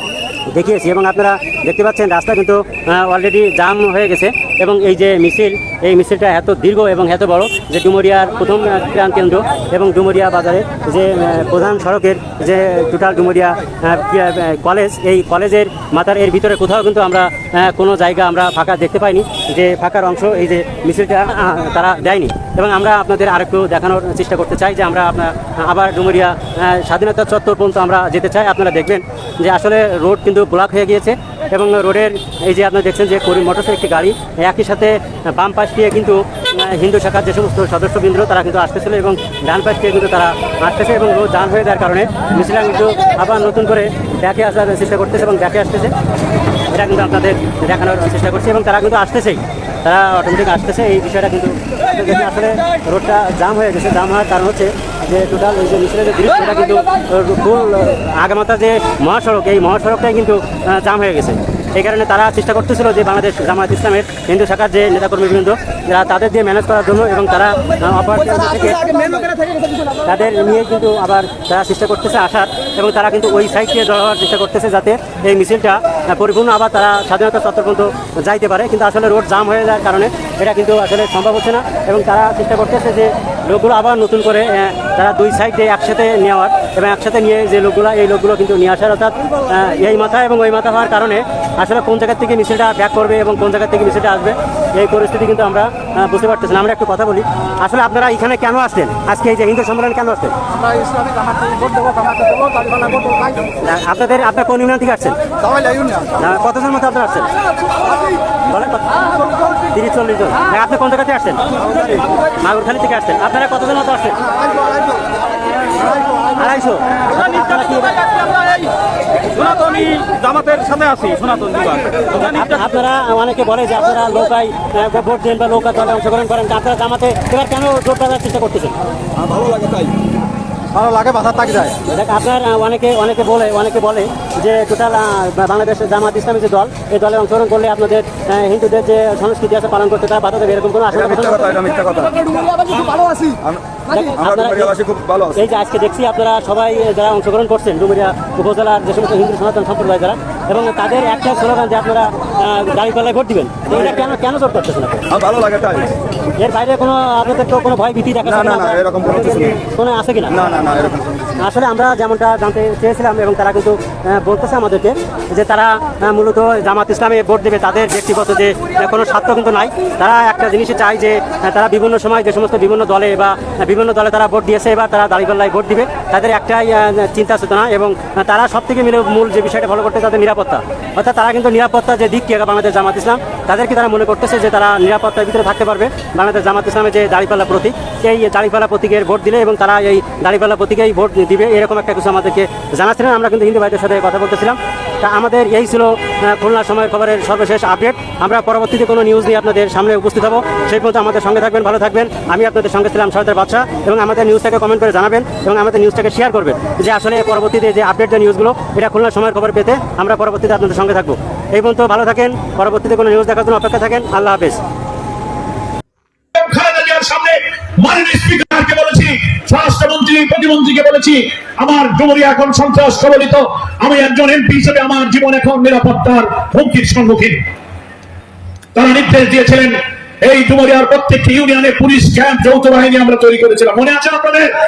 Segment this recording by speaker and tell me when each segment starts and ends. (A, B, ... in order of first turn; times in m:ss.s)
0:00.5-0:45.9 A
0:46.7-1:09.3 A
1:10.0-1:40.4 A
1:43.6-1:45.2 A
1:46.1-1:47.3 A
1:48.5-1:54.2 A
1:55.8-1:58.2 A
1:59.4-2:08.8 A
2:09.2-2:09.9 B
2:10.8-2:11.6 B
2:11.7-2:21.6 A
2:21.0-2:22.3 B
2:23.9-2:24.8 A
2:24.2-2:25.3 B
2:25.3-2:35.1 A
2:35.1-2:35.9 B
2:36.4-2:40.4 A
2:38.4-2:39.5 B
2:40.4-2:41.2 B
2:41.4-3:34.6 A
3:36.4-3:47.4 C
3:48.8-3:54.5 C